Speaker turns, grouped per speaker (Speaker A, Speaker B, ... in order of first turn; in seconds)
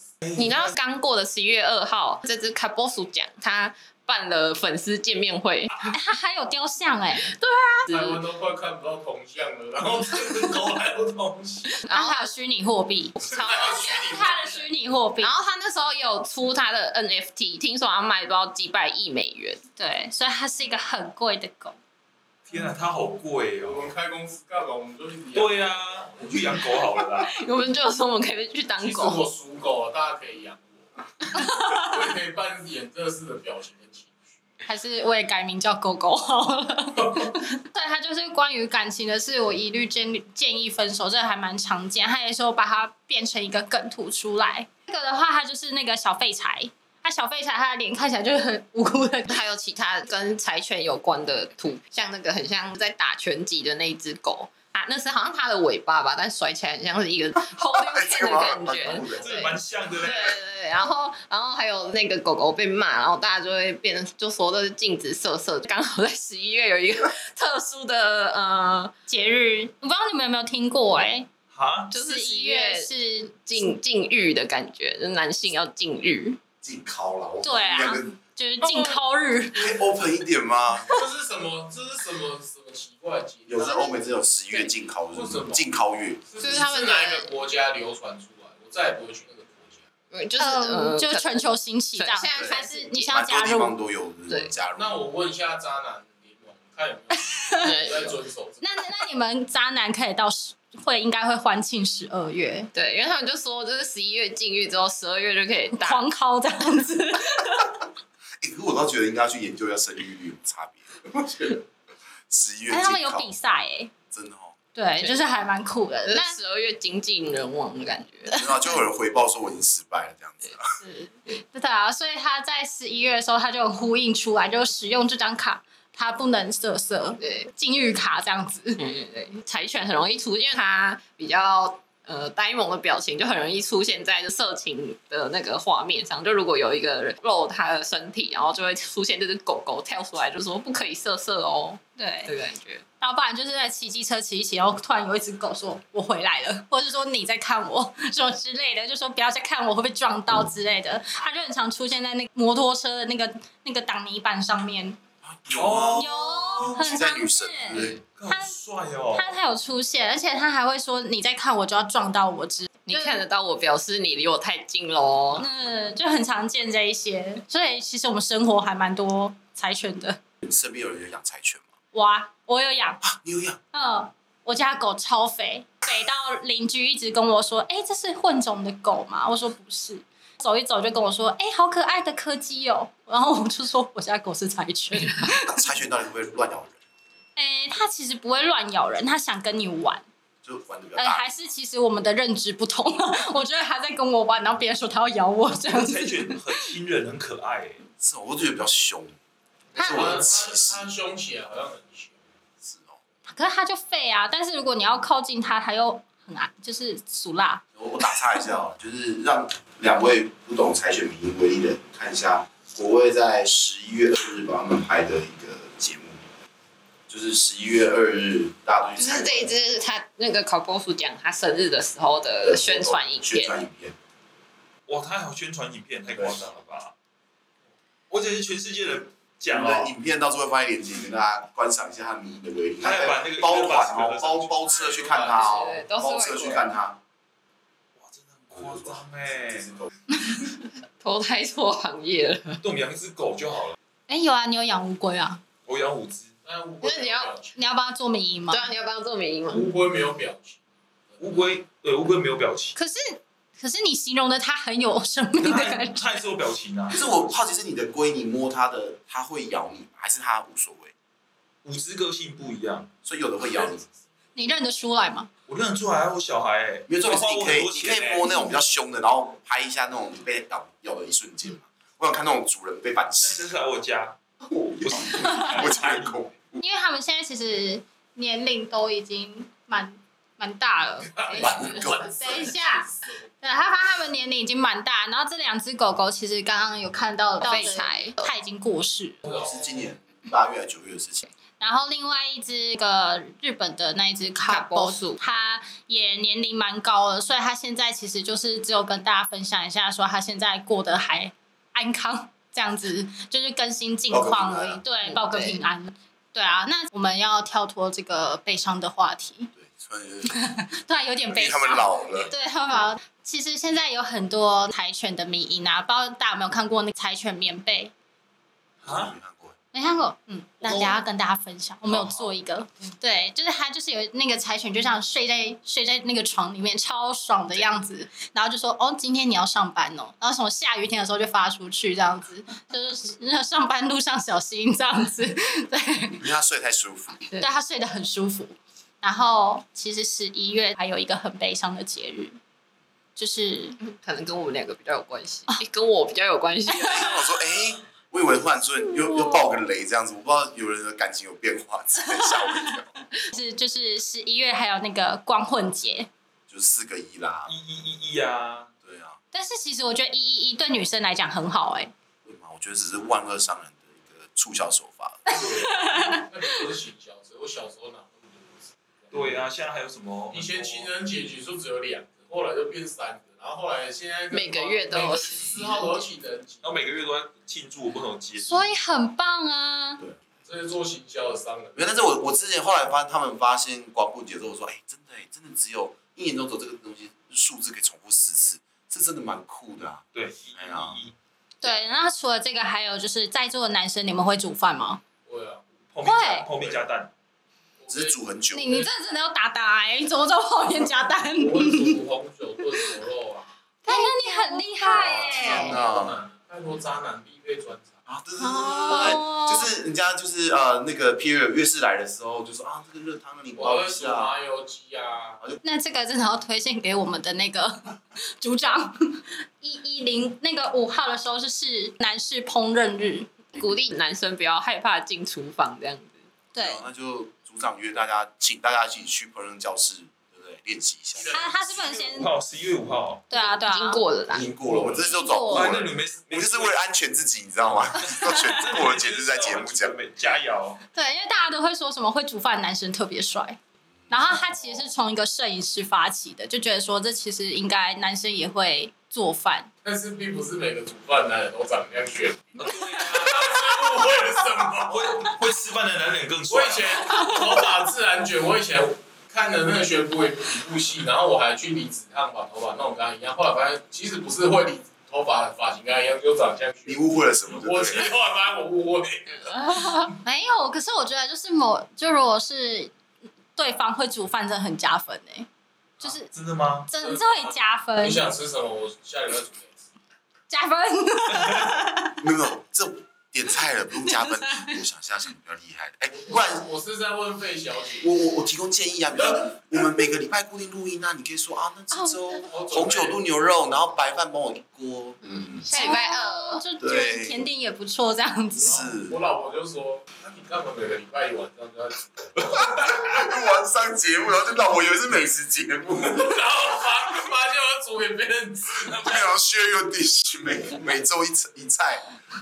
Speaker A: 0.2-0.7, 9.8-11.8, 22.5-23.9, 25.3-27.3, 59.1-60.4, 71.5-71.9, 155.5-156.8, 157.9-159.3, 195.7-197.8, 224.9-226.9, 228.1-229.9, 232.8-234.6, 237.9-239.7, 242.6-243.8, 245.7-246.3, 251.2-252.8, 255.4-257.1, 261.6-262.9, 265.5-268.4, 273.2-274.2, 274.8-276.2, 318.8-319.1, 320.7-320.9, 321.8-322.3, 357.4-358.7, 369.1-370.9, 376.6-378.7, 390.1-391.1, 395.9-397.1, 431.8-433.2, 435.5-436.8, 438.0-440.8, 444.4-444.9, 452.5-453.8, 454.9-457.3, 476.0-476.9, 481.3-481.8
Speaker B: 0.3-5.9, 7.2-8.2, 11.8-12.3, 13.2-14.5, 15.2-19.6, 27.2-29.2, 49.3-68.9, 71.9-72.9, 73.5-76.4, 78.7-78.9, 86.4-87.4, 90.1-91.4, 91.9-93.1, 97.6-98.2, 102.7-106.0, 116.0-118.4, 120.8-121.4, 127.2-127.5, 128.8-142.8, 162.9-165.4, 219.0-223.6, 235.3-236.7, 241.0-242.6, 246.8-247.3, 248.5-249.7, 287.4-288.3, 294.5-295.2, 305.0-305.6, 343.8-347.2, 374.3-376.0, 403.9-404.6, 423.5-426.2, 433.3-434.5, 491.9-492.4, 495.2-496.6
Speaker C: 5.9-7.3, 11.9-15.3, 19.8-21.8, 34.6-49.4, 69.1-71.3, 71.9-73.6, 77.4-79.7, 90.4-93.7, 97.2-97.7, 98.6-102.7, 105.7-107.7, 112.7-113.9, 114.7-116.4, 121.5-128.8, 142.0-142.3, 143.0-155.0, 155.9-158.6, 159.1-163.2, 165.4-170.2, 171.9-173.0, 173.7-185.6, 187.3-190.0, 190.9-196.6, 203.3-207.6, 244.1-245.4, 247.6-248.7, 252.8-256.2, 264.4-265.3, 276.6-282.9, 283.4-289.2, 291.6-309.5, 310.2-317.9, 319.7-336.2, 337.4-342.4, 343.2-343.8, 352.1-352.7, 353.3-356.1, 359.3-361.9, 365.3-366.3, 378.4-380.0, 391.6-395.0, 396.0-396.5, 398.5-402.0, 403.9-405.8, 408.4-409.8, 415.6-423.3, 426.5-426.8, 431.3-432.3, 433.3-434.0, 435.0-435.8, 440.9-443.6, 444.1-449.7, 470.2-472.9, 473.6-475.5, 476.0-476.3, 476.9-478.2, 480.5-482.2, 484.1-484.8, 495.7-498.8
Speaker D: 7.9-10.8, 13.2-14.4, 23.6-26.2, 28.8-34.2, 58.8-59.4, 80.9-83.8, 85.1-85.7, 86.3-89.8, 94.7-98.8, 199.7-202.2, 234.6-235.8, 246.4-247.6, 249.5-250.6, 251.1-251.4, 281.1-283.3, 289.2-289.9, 365.5-369.4, 370.3-376.6, 380.4-381.9, 395.2-395.8, 397.8-398.8, 401.4-403.5, 404.9-407.9, 413.6-415.4, 431.1-432.0, 434.4-435.1, 449.8-455.3, 456.5-470.1, 477.0-479.9, 486.2-488.1, 489.2-489.5, 492.5-493.5, 498.6-503.0, 506.0-509.3
Speaker E: 57.7-59.4, 76.6-78.1, 79.5-80.9, 83.5-86.2, 92.3-95.0, 108.4-111.6, 112.3-113.3, 114.1-114.5, 118.3-120.7, 155.2-158.0, 170.4-171.7, 173.0-173.6, 185.4-186.8, 190.4-191.4, 198.0-199.2, 199.8-200.9, 202.6-203.0, 207.7-216.2, 217.1-219.6, 222.4-223.9, 229.5-237.0, 238.5-239.9, 256.9-260.9, 263.0-263.8, 266.9-273.5, 274.5-276.6, 281.4-282.4, 289.2-291.3, 304.1-304.8, 309.6-310.3, 311.3-312.3, 318.8-319.5, 336.2-337.2, 346.8-353.0, 356.5-357.5, 358.8-359.2, 362.2-365.3, 381.7-391.0, 397.9-398.8, 405.0-406.2, 408.1-414.3, 426.5-431.4, 434.3-439.9, 466.9-468.1, 482.2-486.7, 488.0-495.7, 496.8-497.5, 498.6-499.2, 502.5-506.4, 508.8-512.1